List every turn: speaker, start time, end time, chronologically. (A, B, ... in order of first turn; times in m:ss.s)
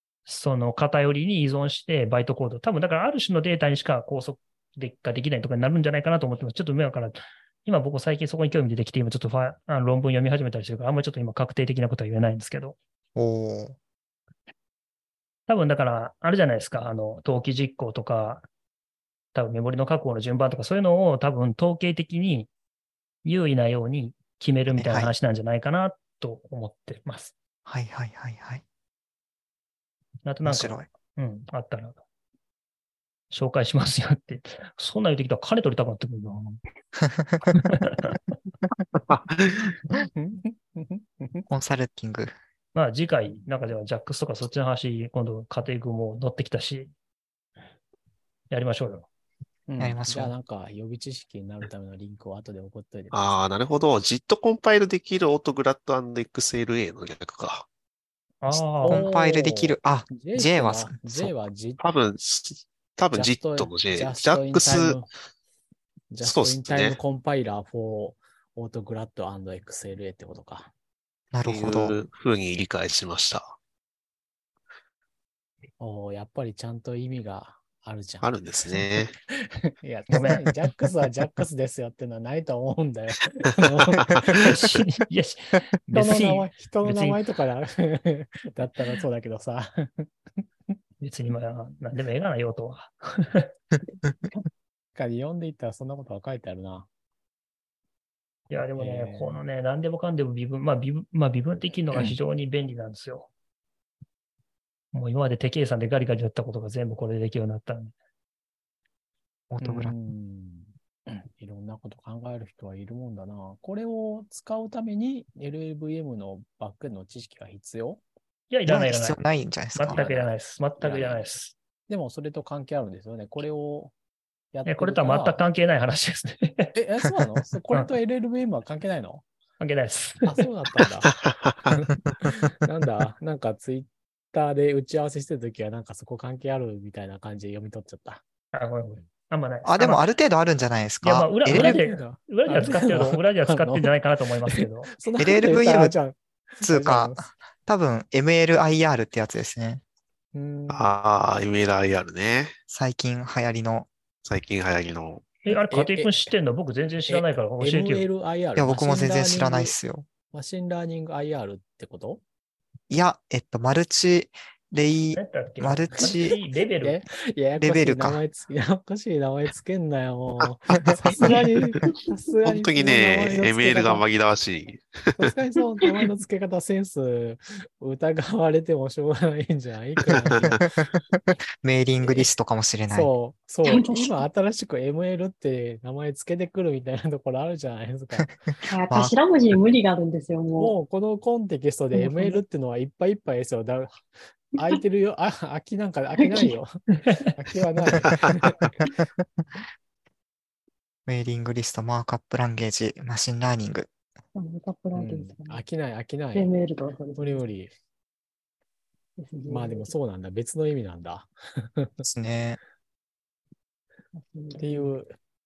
0:00.2-0:12.8 A
0:13.2-0:13.8 B
0:15.5-0:18.4 A
0:19.3-0:22.5 A
0:23.2-0:27.3 A
0:24.7-0:25.1 B
0:27.6-0:28.6 B
0:30.2-0:32.0 A
0:30.4-0:30.9 B
0:33.3-0:36.6 A
0:37.0-0:37.5 B
0:37.6-0:38.2 A
0:39.1-0:39.6 C
0:39.9-0:41.5 D
0:41.5-0:42.3 B
0:42.7-0:46.9 A
0:48.5-0:49.1 A
0:49.7-0:53.3 D
0:49.8-0:50.3 B
0:53.1-0:57.6 C
0:58.4-0:59.1 A
0:58.5-1:01.3 B
0:58.8-1:01.8 D
1:01.8-1:05.0 C
1:03.1-1:05.1 D
1:06.1-1:10.7 D
1:06.2-1:07.0 C
1:11.3-1:12.0 B
1:11.4-1:13.5 C
1:15.8-1:18.3 D
1:18.2-1:19.1 C
1:19.3-1:24.5 D
1:20.1-1:20.5 A
1:24.0-1:24.5 C
1:24.4-1:27.2 A
1:25.9-1:30.1 D
1:31.0-1:33.5 A
1:33.9-1:34.4 E
1:34.9-1:36.9 D
1:38.5-1:43.3 A
1:38.8-1:39.4 D
1:44.9-1:47.9 A
1:49.5-1:50.0 B
1:49.6-1:58.0 D
1:58.5-1:59.2 A
1:58.7-2:00.3 B
1:59.8-2:01.5 A
1:59.9-2:00.2 D
2:00.8-2:01.2 D
2:01.9-2:03.9 D
2:04.5-2:05.4 D
2:04.6-2:06.7 A
2:06.8-2:09.2 D
2:09.6-2:10.5 A
2:10.2-2:11.1 D
2:11.2-2:11.7 C
2:11.6-2:18.2 D
2:18.5-2:20.0 A
2:19.6-2:21.8 B
2:21.0-2:25.0 A
2:21.4-2:23.9 D
2:24.5-2:27.3 D
2:25.2-2:26.0 B
2:26.6-2:29.8 B
2:30.3-2:30.9 D
2:30.7-2:32.5 C
2:32.7-2:33.9 B
2:34.2-2:35.4 C
2:35.4-2:38.0 A
2:35.4-2:36.2 D
2:37.1-2:39.8 D
2:38.6-2:40.1 B
2:40.3-2:42.2 D
2:42.9-2:46.4 B
2:45.1-2:47.0 A
2:46.8-2:54.0 D
2:47.6-2:48.2 B
2:51.2-2:51.8 C
2:52.4-2:55.3 C
2:55.2-3:00.6 D
3:00.0-3:00.6 C
3:00.4-3:03.1 B
3:02.9-3:08.3 D
3:03.6-3:04.2 E
3:08.2-3:09.1 B
3:08.6-3:10.7 E
3:10.6-3:16.8 D
3:11.9-3:12.4 E
3:16.2-3:16.5 E
3:17.3-3:18.8 D
3:21.1-3:23.9 B
3:24.3-3:25.6 E
3:24.9-3:26.5 D
3:26.3-3:27.4 E
3:27.2-3:27.7 D
3:29.2-3:29.9 E
3:29.5-3:32.0 D
3:32.0-3:32.6 B
3:34.1-3:34.9 E
3:34.6-3:35.1 D